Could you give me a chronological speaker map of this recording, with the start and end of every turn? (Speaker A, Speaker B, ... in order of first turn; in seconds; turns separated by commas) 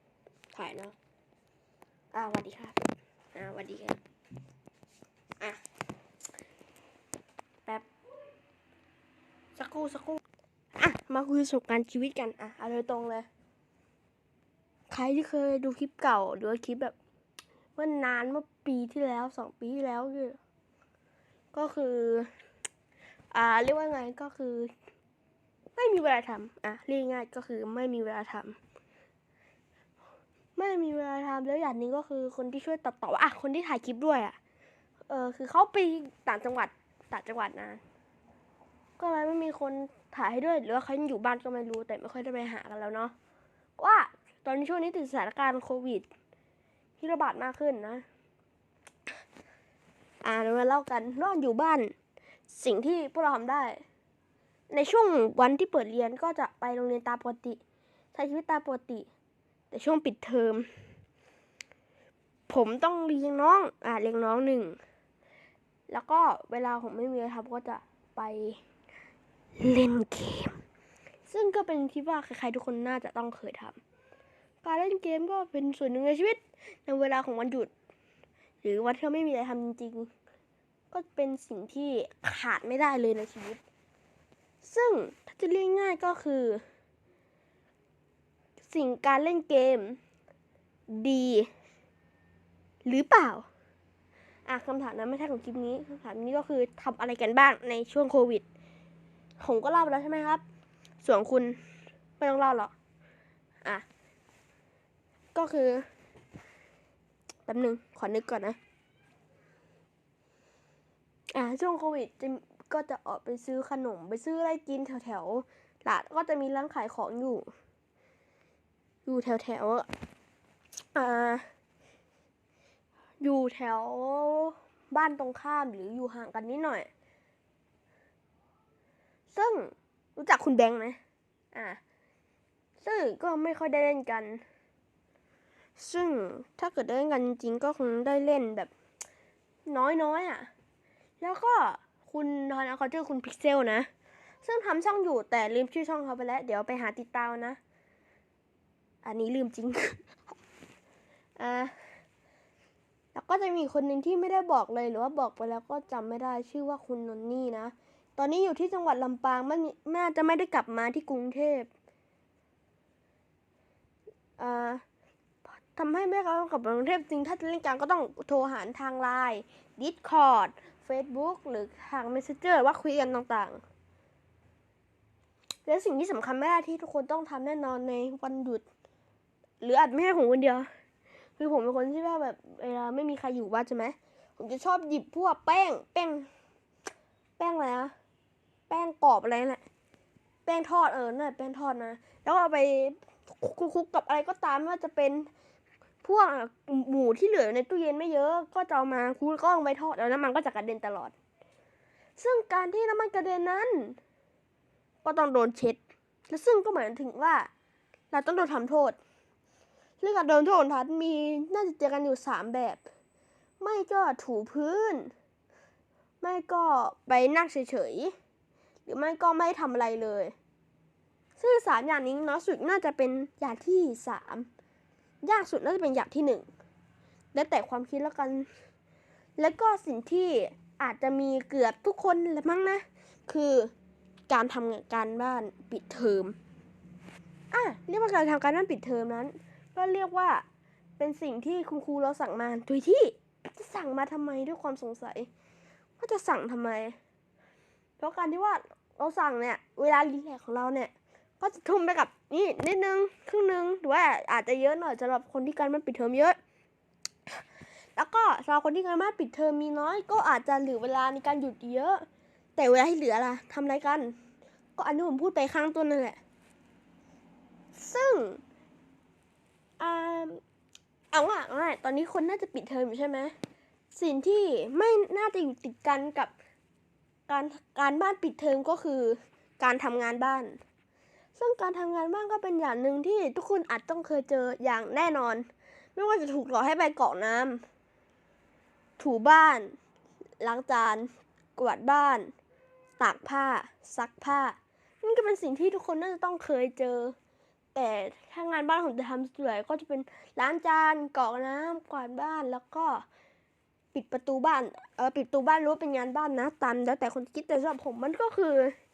Speaker A: 0.5-0.9, Speaker A: 2.1-2.8, Speaker A: 3.3-4.0, Speaker A: 9.6-10.2, Speaker A: 10.8-13.3, Speaker A: 14.9-16.9, Speaker A: 17.8-20.4, Speaker A: 21.5-22.3, Speaker A: 23.3-24.7, Speaker A: 25.8-28.6, Speaker A: 30.6-34.4, Speaker A: 35.1-37.8, Speaker A: 39.0-43.1, Speaker A: 43.8-46.1, Speaker A: 47.0-48.0, Speaker A: 50.2-51.9, Speaker A: 52.5-53.8, Speaker A: 54.7-57.6, Speaker A: 58.1-59.1, Speaker A: 59.7-60.7, Speaker A: 62.5-64.8, Speaker A: 65.9-68.6, Speaker A: 69.6-70.6, Speaker A: 71.3-73.8, Speaker A: 74.6-77.7, Speaker A: 78.6-80.1, Speaker A: 80.9-83.6, Speaker A: 84.6-86.6, Speaker A: 88.7-90.0, Speaker A: 90.9-91.5, Speaker A: 92.8-93.5, Speaker A: 94.5-98.5, Speaker A: 99.4-100.4, Speaker A: 101.0-101.6, Speaker A: 102.2-102.7, Speaker A: 105.3-105.8, Speaker A: 107.5-108.6, Speaker A: 111.3-117.5, Speaker A: 119.0-119.9, Speaker A: 121.0-121.5, Speaker A: 123.2-126.9, Speaker A: 129.3-131.0, Speaker A: 131.5-131.8, Speaker A: 132.8-134.4, Speaker A: 135.8-138.7, Speaker A: 139.7-140.5, Speaker A: 141.2-143.9, Speaker A: 144.4-147.6, Speaker A: 149.0-150.1, Speaker A: 151.4-151.7, Speaker A: 153.1-161.7, Speaker A: 164.4-164.8, Speaker A: 165.5-173.6, Speaker A: 175.7-178.6, Speaker A: 179.6-180.7, Speaker A: 181.4-186.3, Speaker A: 187.4-187.9, Speaker A: 188.7-189.6, Speaker A: 190.5-195.3, Speaker A: 196.0-201.1, Speaker A: 202.2-204.0, Speaker A: 205.0-207.5, Speaker A: 208.1-209.0, Speaker A: 210.0-212.8, Speaker A: 213.6-215.1, Speaker A: 216.2-218.2, Speaker A: 218.9-220.3, Speaker A: 221.4-224.5, Speaker A: 225.2-226.5, Speaker A: 227.3-228.5, Speaker A: 229.4-233.7, Speaker A: 234.3-236.4, Speaker A: 237.5-240.4, Speaker A: 241.0-245.3, Speaker A: 246.0-247.0, Speaker A: 248.0-256.4, Speaker A: 258.0-262.1, Speaker A: 262.6-264.1, Speaker A: 264.8-266.2, Speaker A: 267.8-268.4, Speaker A: 269.8-270.4, Speaker A: 271.1-273.3, Speaker A: 273.9-276.3, Speaker A: 277.3-280.6, Speaker A: 281.4-287.6, Speaker A: 289.0-289.7, Speaker A: 290.4-292.3, Speaker A: 293.0-297.1, Speaker A: 297.7-303.1, Speaker A: 303.9-308.8